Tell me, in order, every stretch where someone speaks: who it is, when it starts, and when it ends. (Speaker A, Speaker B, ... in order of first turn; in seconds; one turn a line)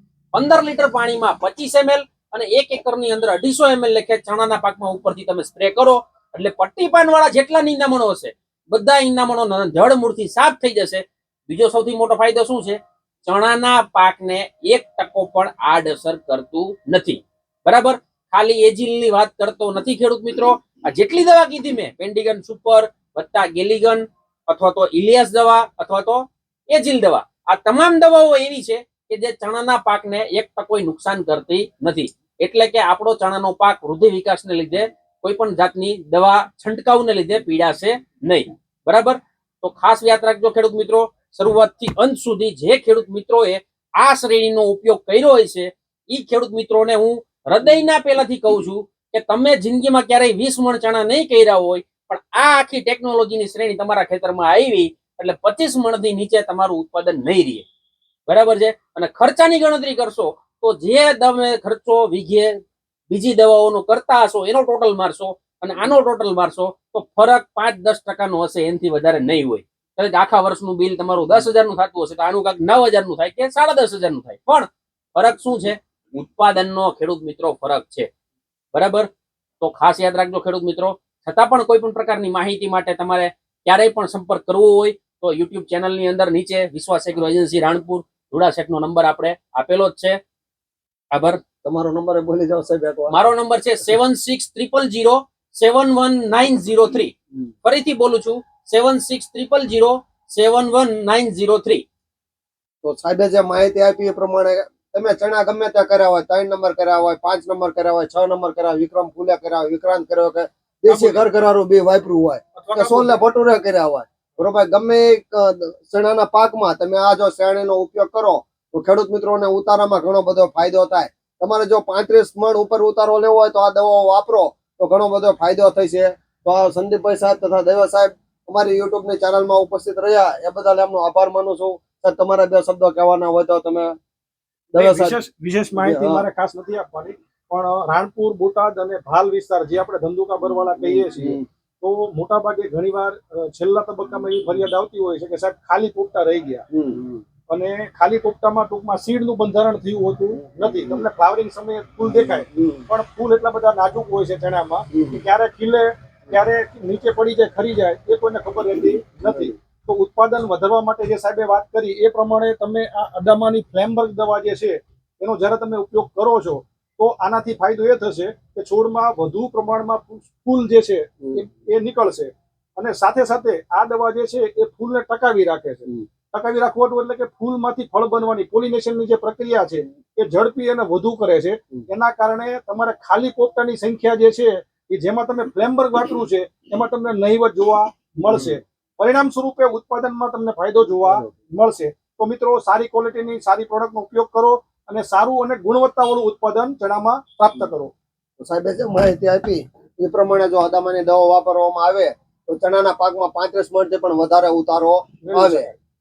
Speaker A: 0.3-57.6
Speaker A: 58.3-62.6
Speaker A: 63.1-78.1
Speaker A: 78.7-90.2
Speaker A: 91.1-91.4
Speaker B: 91.6-93.1
Speaker A: 93.1-101.8
Speaker B: 102.8-133.9
Speaker C: 110.9-111.2
Speaker C: 112.5-113.2
Speaker B: 134.7-135.2
Speaker C: 134.7-146.7
Speaker B: 135.8-136.2
Speaker B: 140.8-141.4
Speaker B: 146.7-147.1
Speaker C: 147.5-197.9
Speaker B: 150.6-151.1
Speaker B: 152.1-152.8
Speaker B: 154.9-155.2
Speaker B: 159.2-159.5
Speaker B: 198.4-205.7
Speaker C: 205.2-205.8